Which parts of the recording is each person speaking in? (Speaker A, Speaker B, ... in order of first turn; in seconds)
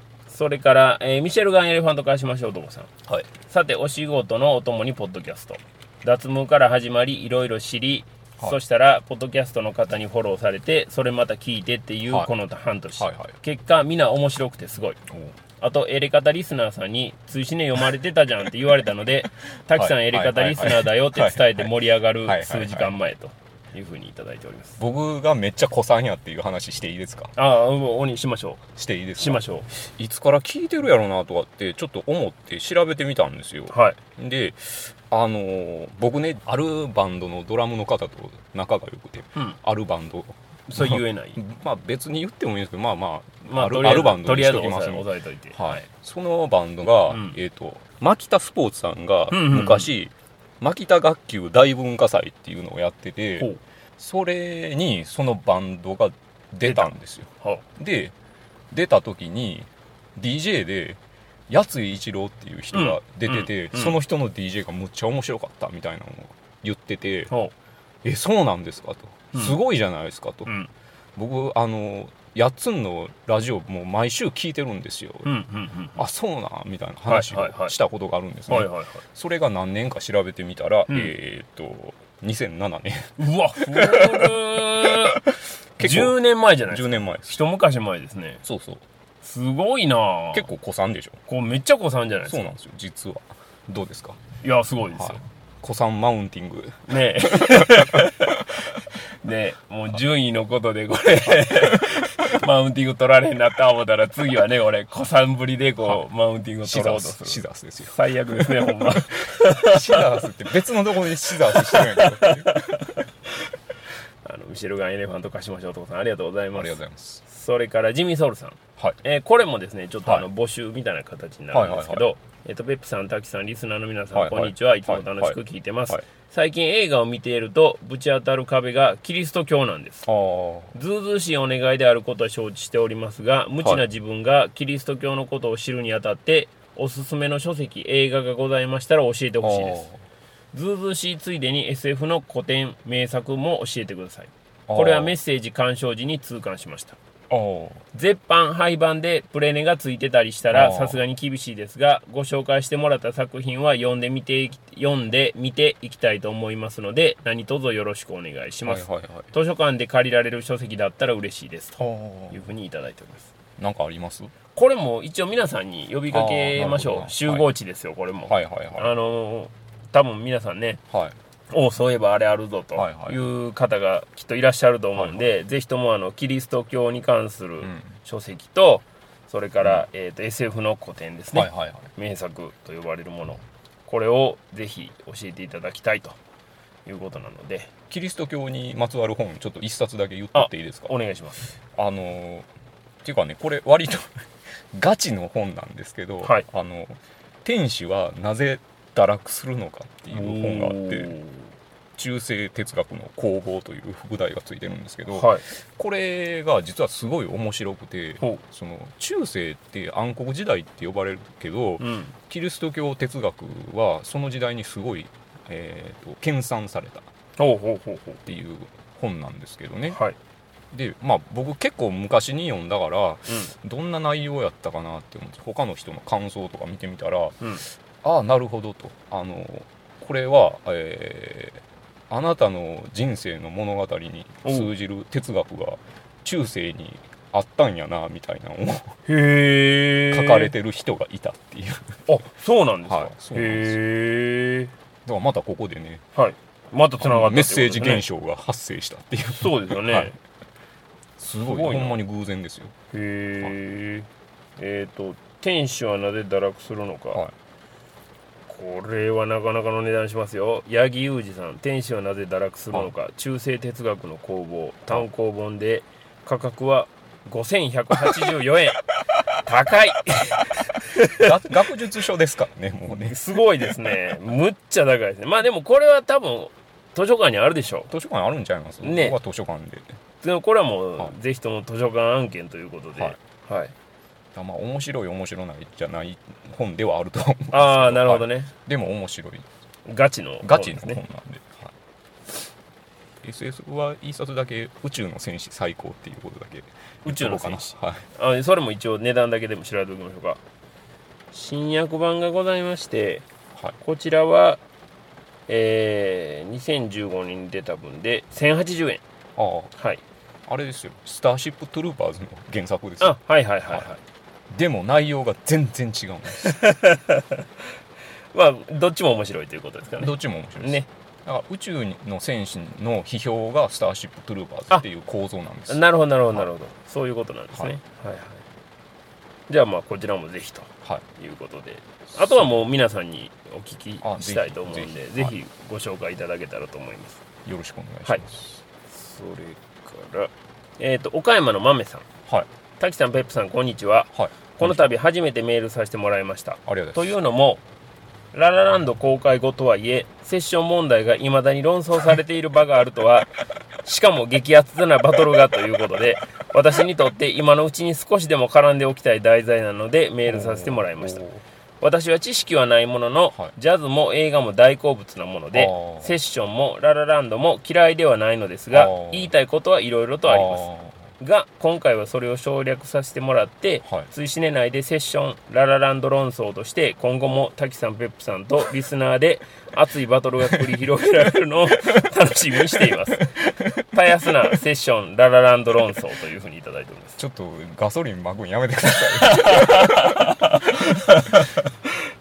Speaker A: 0.3-2.9, 3.5-15.0, 15.6-24.8, 27.4-28.6, 29.2-29.7, 33.7-34.0, 40.7-41.4, 43.5-45.8, 47.1-47.4, 49.3-49.9, 56.6-56.9, 62.7-64.0, 75.2-76.0, 77.1-77.8, 78.5-79.0, 80.9-81.1, 83.2-85.2, 85.8-88.4, 89.2-90.5, 91.3-92.5, 94.4-95.2, 96.9-98.4, 99.2-110.2, 111.3-113.0, 114.2-130.1, 130.7-139.9, 140.5-147.0, 147.9-163.3, 164.5-170.8, 171.5-186.2, 186.8-187.7, 190.3-191.5, 200.1-201.5, 205.1-205.4, 211.8-212.1, 217.4-218.2, 219.9-220.2, 234.4-234.7, 239.1-240.5, 242.1-244.7, 246.2-248.0, 249.4-250.2, 251.4-252.0, 252.9-254.1, 254.6-257.2, 258.5-268.9, 269.4-271.5, 272.9-277.9, 278.8-279.2, 280.2-283.7, 287.5-288.5, 289.9-291.0, 297.0-300.4, 301.3-303.2, 303.8-304.6, 305.5-309.0, 309.8-310.0, 313.0-314.0, 316.4-317.4, 318.3-320.9, 325.7-328.4, 329.5-337.2, 338.9-342.1, 342.8-347.6, 348.3-353.3, 353.8-361.2, 361.8-370.7, 371.2-387.2, 389.0-391.4
Speaker B: 13.0-13.3, 15.1-15.3, 19.8-21.7, 22.2-22.9, 24.8-27.3, 28.8-58.1, 58.7-67.3, 68.0-70.5, 71.2-75.3, 76.0-87.4, 88.4-88.8, 90.3-91.2, 92.3-94.2, 95.0-98.7, 106.7-113.0, 116.5-117.2, 121.5-122.0, 124.1-125.4, 130.1-130.7, 139.4-140.0, 144.7-145.1, 147.3-147.8, 150.5-151.0, 158.7-159.3, 161.8-162.4, 163.6-164.3, 166.1-167.5, 168.3-168.9, 170.9-171.2, 172.8-173.2, 177.6-177.9, 181.3-181.9, 187.9-190.9, 191.7-192.5, 193.0-194.2, 194.7-201.2, 202.0-217.1, 218.2-220.0, 220.7-227.4, 228.0-239.0, 240.1-242.0, 242.8-243.8, 245.1-246.0, 247.0-250.1, 251.2-252.7, 271.1-273.9, 277.9-280.0, 284.3-289.5, 290.4-291.7, 293.2-298.1, 309.4-309.7, 310.5-313.2, 314.5-316.6, 320.0-325.8, 332.1-332.6, 334.0-335.3, 337.4-338.6, 344.1-344.9, 346.7-347.2, 360.3-361.4, 365.5-366.2, 368.7-369.3, 370.2-371.0, 383.3-383.8, 387.2-391.6